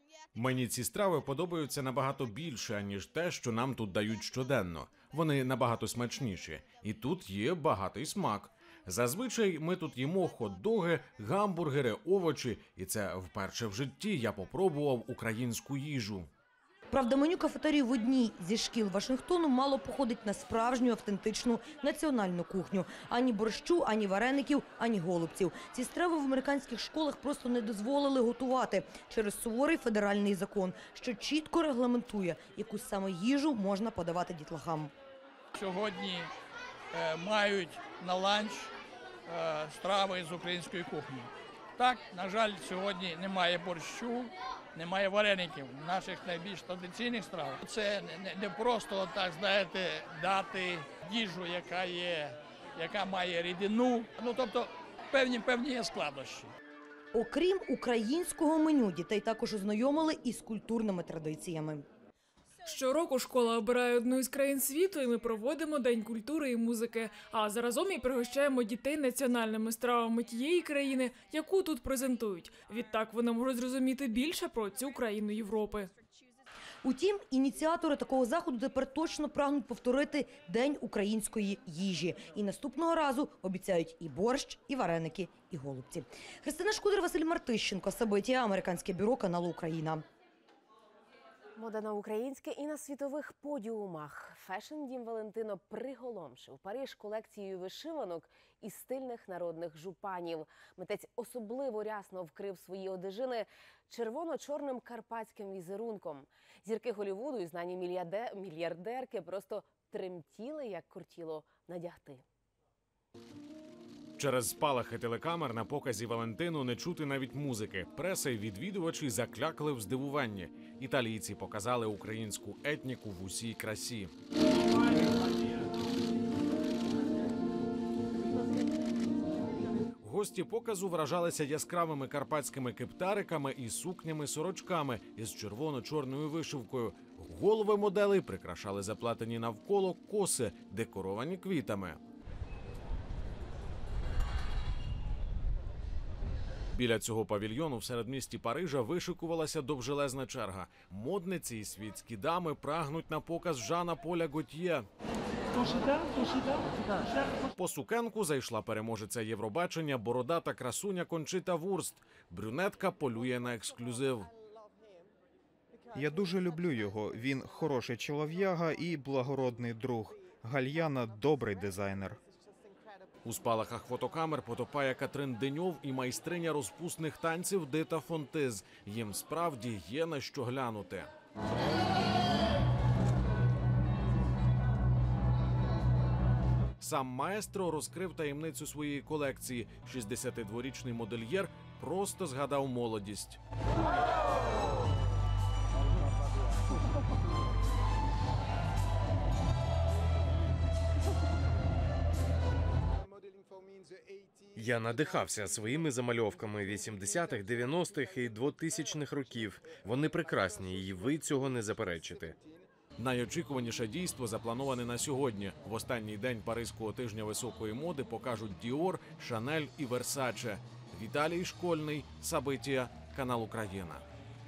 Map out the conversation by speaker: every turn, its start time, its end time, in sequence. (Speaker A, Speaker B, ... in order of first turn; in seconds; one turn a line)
Speaker A: 0.3-16.3
Speaker B: 16.9-34.9
Speaker C: 35.5-36.3
Speaker C: 36.9-38.7
Speaker C: 39.3-56.5
Speaker B: 57.1-61.8
Speaker D: 62.6-75.9
Speaker B: 76.8-90.0
Speaker E: 91.6-112.2
Speaker A: 114.2-124.1
Speaker A: 130.0-142.0
Speaker A: 146.7-154.9
Speaker A: 157.5-164.3
Speaker F: 165.9-172.2
Speaker A: 173.2-181.1
Speaker A: 186.8-193.4
Speaker G: 204.5-212.4
Speaker A: 213.0-224.0